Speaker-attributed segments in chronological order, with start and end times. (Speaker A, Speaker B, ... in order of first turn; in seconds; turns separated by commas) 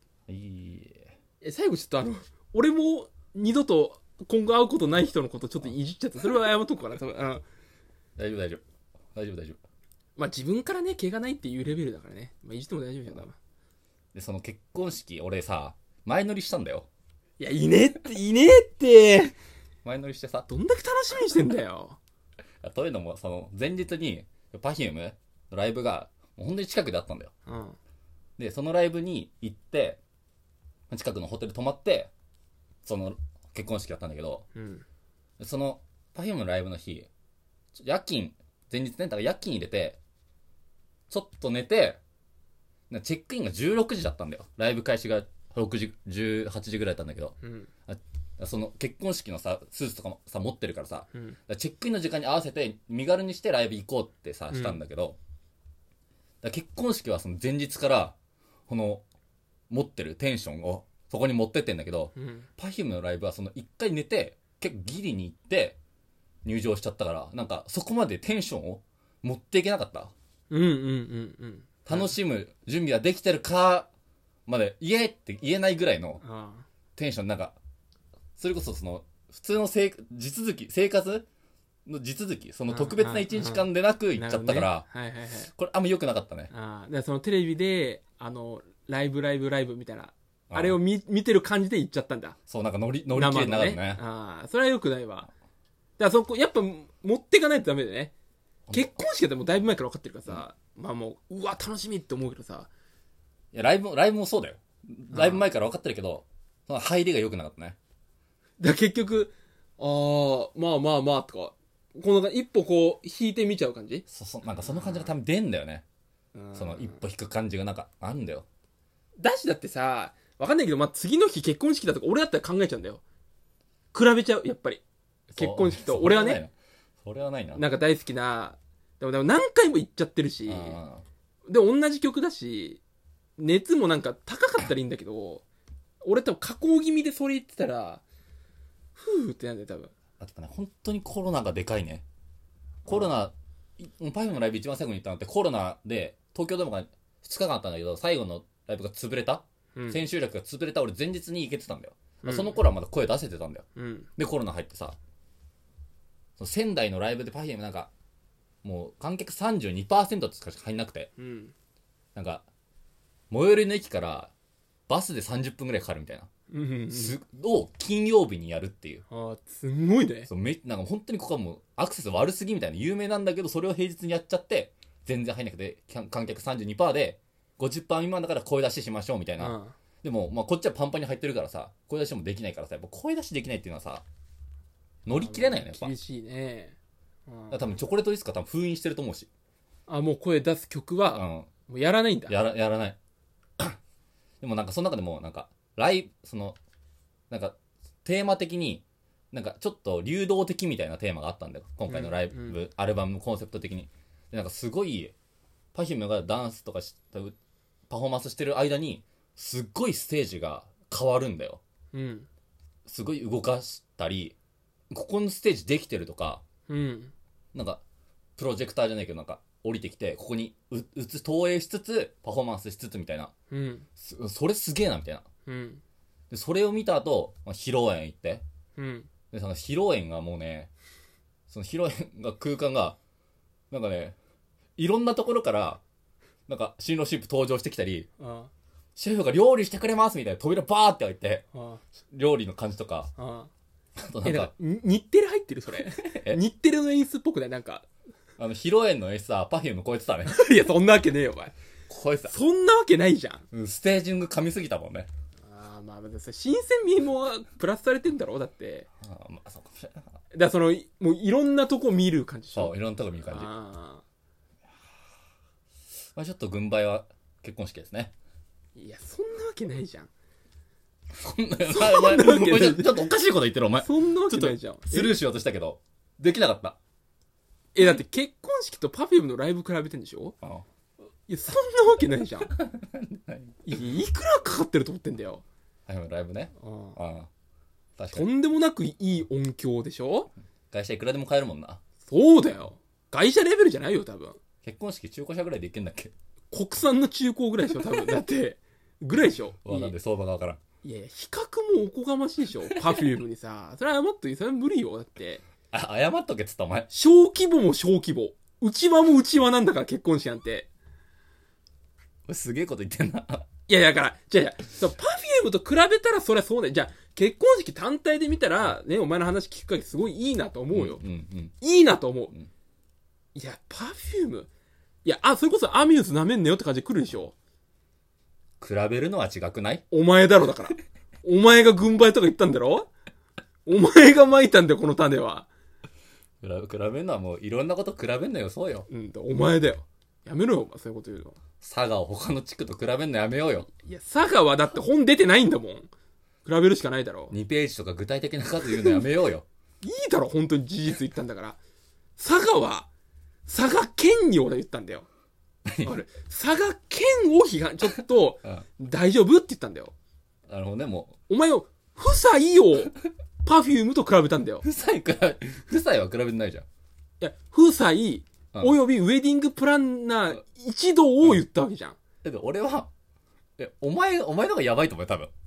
Speaker A: 0.3-1.1, Speaker B: 1.4-7.4, Speaker A: 8.2-8.6, Speaker A: 9.1-9.6, Speaker B: 10.2-13.3, Speaker A: 14.1-16.9, Speaker B: 17.4-19.3, Speaker A: 19.8-20.5, Speaker B: 20.5-22.0, Speaker A: 22.6-27.3, Speaker B: 27.5-27.8, Speaker A: 28.4-30.0, Speaker A: 30.9-32.1, Speaker A: 32.8-34.5, Speaker B: 34.5-34.8, Speaker A: 35.4-37.1, Speaker A: 37.7-40.0, Speaker A: 41.1-42.0, Speaker A: 42.9-55.2, Speaker B: 47.4-47.7, Speaker B: 54.5-54.8, Speaker A: 56.4-58.1, Speaker A: 58.7-59.0, Speaker A: 59.7-65.8, Speaker B: 62.1-62.5, Speaker A: 66.4-70.1, Speaker B: 70.5-72.1, Speaker A: 71.8-73.9, Speaker A: 74.5-76.2, Speaker B: 76.2-76.6, Speaker A: 77.0-77.6, Speaker A: 78.3-81.2, Speaker A: 81.8-84.8, Speaker B: 82.7-85.5, Speaker A: 85.5-86.5, Speaker B: 86.5-92.4, Speaker A: 90.5-90.8, Speaker A: 92.5-94.0, Speaker B: 93.1-95.3, Speaker B: 96.0-98.1, Speaker B: 98.7-102.7, Speaker A: 103.5-107.8, Speaker B: 105.1-105.4, Speaker B: 108.6-114.0, Speaker A: 114.1-115.8, Speaker B: 116.3-117.0, Speaker A: 116.5-118.5, Speaker B: 119.2-123.0, Speaker B: 123.9-126.4, Speaker A: 125.3-127.7, Speaker B: 127.5-130.8, Speaker A: 130.4-131.0, Speaker B: 131.5-132.8, Speaker B: 133.4-135.4, Speaker B: 136.0-138.0, Speaker B: 138.9-139.9, Speaker A: 140.2-142.0, Speaker A: 142.8-153.7, Speaker B: 152.2-152.6, Speaker B: 153.8-154.1, Speaker A: 154.2-154.9, Speaker A: 156.4-157.9, Speaker A: 158.6-161.1, Speaker B: 161.2-161.5, Speaker A: 162.1-162.4, Speaker A: 163.3-164.3, Speaker A: 164.9-166.3, Speaker B: 166.5-167.1, Speaker A: 166.9-169.0, Speaker B: 169.1-170.3, Speaker A: 170.3-184.0, Speaker B: 179.4-179.7, Speaker A: 185.1-185.9, Speaker B: 185.1-186.8, Speaker B: 187.3-187.7, Speaker A: 187.5-189.3, Speaker B: 189.9-192.3, Speaker A: 191.1-191.5, Speaker A: 192.3-193.0, Speaker A: 194.4-196.6, Speaker A: 197.3-205.1, Speaker B: 201.9-202.6, Speaker A: 205.7-207.3, Speaker A: 207.9-211.6, Speaker B: 211.9-212.3, Speaker A: 212.8-214.3, Speaker A: 214.9-216.4, Speaker B: 216.7-217.1, Speaker A: 217.5-217.8, Speaker A: 218.4-223.3, Speaker B: 223.5-223.8, Speaker A: 224.0-225.2, Speaker B: 225.4-225.8, Speaker A: 226.3-228.4, Speaker B: 228.8-229.1, Speaker A: 229.3-230.7, Speaker A: 231.5-233.0, Speaker A: 233.7-234.1, Speaker A: 234.8-235.8, Speaker A: 236.5-238.1, Speaker B: 238.2-238.5, Speaker A: 238.9-241.4, Speaker B: 241.5-241.8, Speaker A: 242.1-243.1, Speaker B: 243.2-243.5, Speaker A: 244.0-244.5, Speaker B: 244.2-247.9, Speaker A: 245.8-246.4, Speaker A: 248.4-250.4, Speaker B: 250.3-251.5, Speaker A: 251.9-252.3, Speaker B: 252.3-253.4, Speaker A: 253.5-255.1, Speaker B: 255.4-258.9, Speaker A: 259.0-260.2, Speaker B: 260.3-264.0, Speaker A: 262.5-263.5, Speaker A: 266.1-268.1, Speaker B: 268.7-270.1, Speaker A: 271.1-276.8, Speaker B: 271.7-273.0, Speaker B: 273.8-275.2, Speaker B: 277.7-280.3, Speaker B: 281.3-282.5, Speaker A: 282.5-283.6, Speaker B: 283.6-285.4, Speaker A: 285.9-287.3, Speaker B: 286.6-287.0, Speaker A: 288.0-288.3, Speaker B: 288.1-290.3, Speaker A: 290.7-291.8, Speaker B: 292.0-294.4, Speaker A: 294.6-296.1, Speaker B: 296.5-299.9, Speaker A: 299.6-300.6, Speaker B: 300.8-305.4, Speaker A: 305.7-306.9, Speaker B: 306.9-310.7, Speaker A: 312.3-313.5, Speaker B: 313.7-321.0, Speaker A: 320.7-321.5, Speaker B: 321.6-322.3, Speaker B: 323.3-324.5, Speaker B: 325.0-327.3, Speaker A: 328.6-329.8, Speaker B: 329.9-332.9, Speaker B: 333.6-335.5, Speaker A: 336.4-338.9, Speaker B: 338.9-341.4, Speaker A: 341.6-343.7, Speaker B: 343.7-345.9, Speaker B: 346.4-347.3, Speaker A: 347.3-349.4, Speaker B: 348.7-349.0, Speaker B: 349.8-351.6, Speaker B: 352.2-352.9, Speaker B: 353.4-355.1, Speaker A: 355.6-356.0, Speaker B: 355.8-359.9, Speaker A: 360.5-361.2, Speaker B: 361.3-364.6, Speaker A: 364.6-366.6, Speaker B: 367.2-372.0, Speaker A: 372.2-372.9, Speaker A: 373.6-375.3